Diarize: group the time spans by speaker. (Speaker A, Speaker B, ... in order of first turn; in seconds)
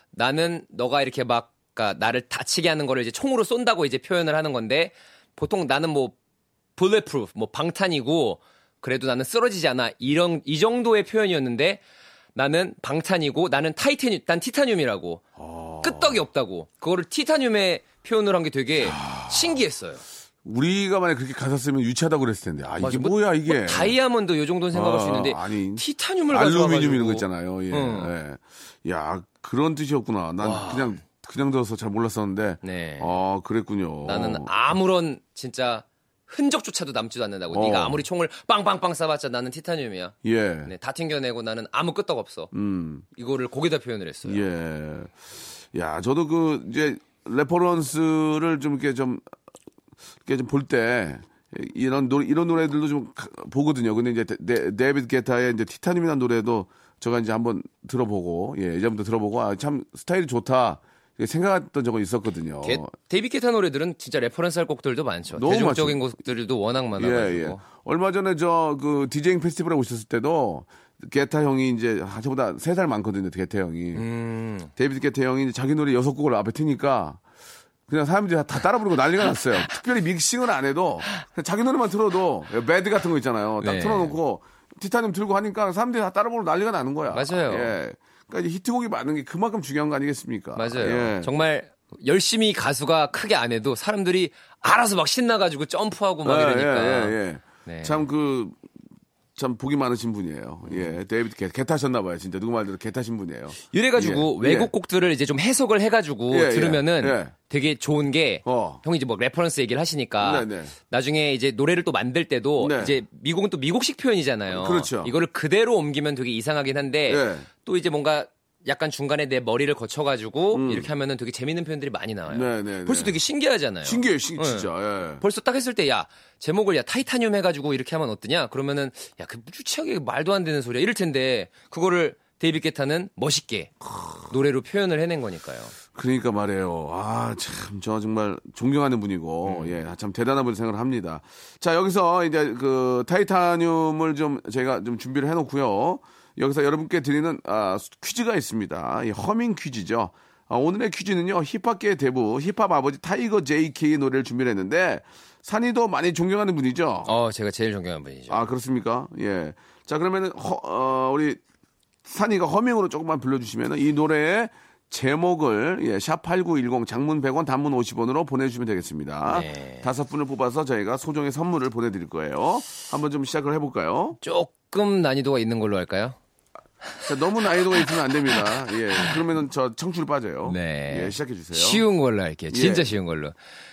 Speaker A: 0.1-6.2, 6.8-11.8, 12.3-15.2, 15.8-20.0, 22.8-28.1, 30.4-31.0, 32.6-33.1, 34.0-42.5, 43.1-44.5, 62.6-67.6, 74.0-74.7, 83.6-84.2, 87.1-87.8, 90.6-98.0, 100.7-100.9, 103.7-133.7, 134.2-135.8, 139.4-139.8, 157.1-158.4, 169.3-169.9, 174.2-176.2, 178.3-179.2, 180.4-183.4
Speaker B: 15.4-16.2, 18.8-19.6, 20.4-23.9, 24.7-34.5, 37.5-38.0, 40.2-40.7, 42.5-43.0, 44.2-45.2, 45.7-49.2, 50.3-62.9, 65.3-66.1, 67.0-74.0, 74.8-77.2, 77.9-91.3, 96.2-98.6, 99.4-104.7, 106.3-107.3, 108.5-108.8, 110.2-110.7, 112.6-113.0, 114.5-115.1, 117.1-117.5, 120.5-120.9, 122.3-123.2, 123.8-125.2, 135.9-157.1, 158.3-161.4, 162.1-174.2, 177.1-181.8, 182.5-182.9